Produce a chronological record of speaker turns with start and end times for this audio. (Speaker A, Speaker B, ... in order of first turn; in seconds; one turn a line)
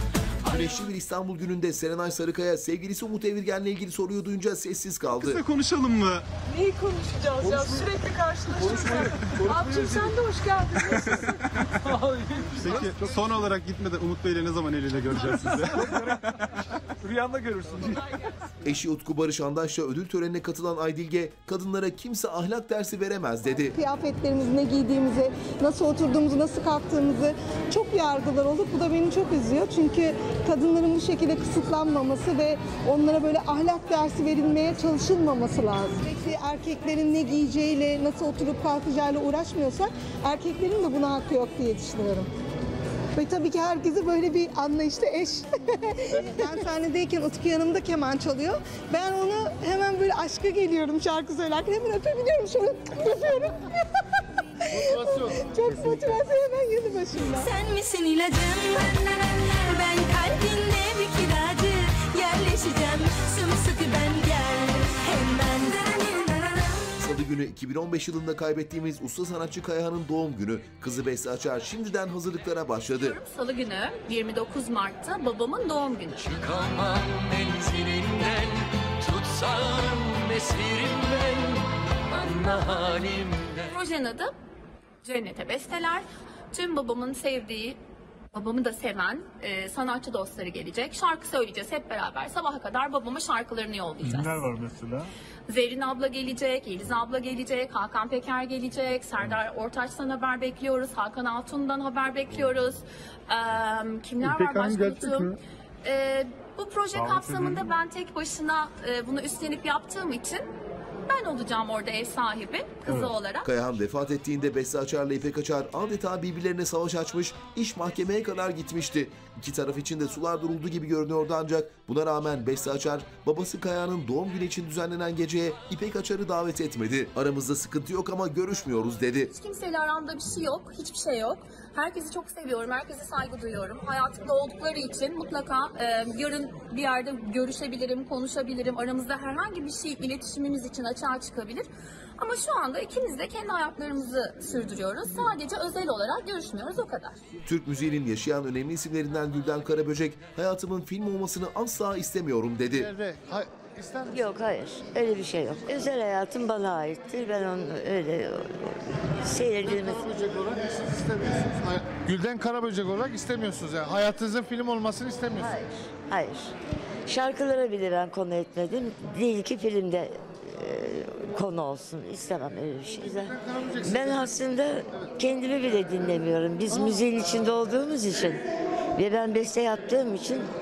Speaker A: 0.5-5.4
Speaker B: 5.2-6.3
Speaker C: 6.5-9.0
Speaker B: 7.4-7.8
Speaker B: 8.7-10.2
Speaker C: 9.7-10.7
Speaker B: 10.9-11.1
Speaker B: 12.5-16.2
Speaker B: 17.1-18.0
Speaker A: 18.6-23.8
Speaker D: 23.8-42.3
Speaker D: 43.2-53.7
Speaker D: 54.7-57.5
Speaker C: 57.4-67.0
Speaker A: 67.0-73.2
Speaker E: 73.0-76.3
Speaker F: 76.2-83.7
Speaker E: 83.7-84.3
Speaker E: 85.0-87.8
Speaker E: 88.3-94.4
Speaker G: 94.2-94.9
Speaker E: 95.5-110.5
Speaker G: 104.3-105.3
Speaker G: 107.2-107.5
Speaker E: 111.1-113.5
Speaker A: 113.4-129.3
Speaker E: 129.3-141.7
Speaker E: 142.2-147.2
Speaker A: 147.5-152.9
Speaker H: 154.1-160.6
Speaker H: 165.3-166.5
Speaker H: 167.1-178.4
Speaker H: 178.9-180.5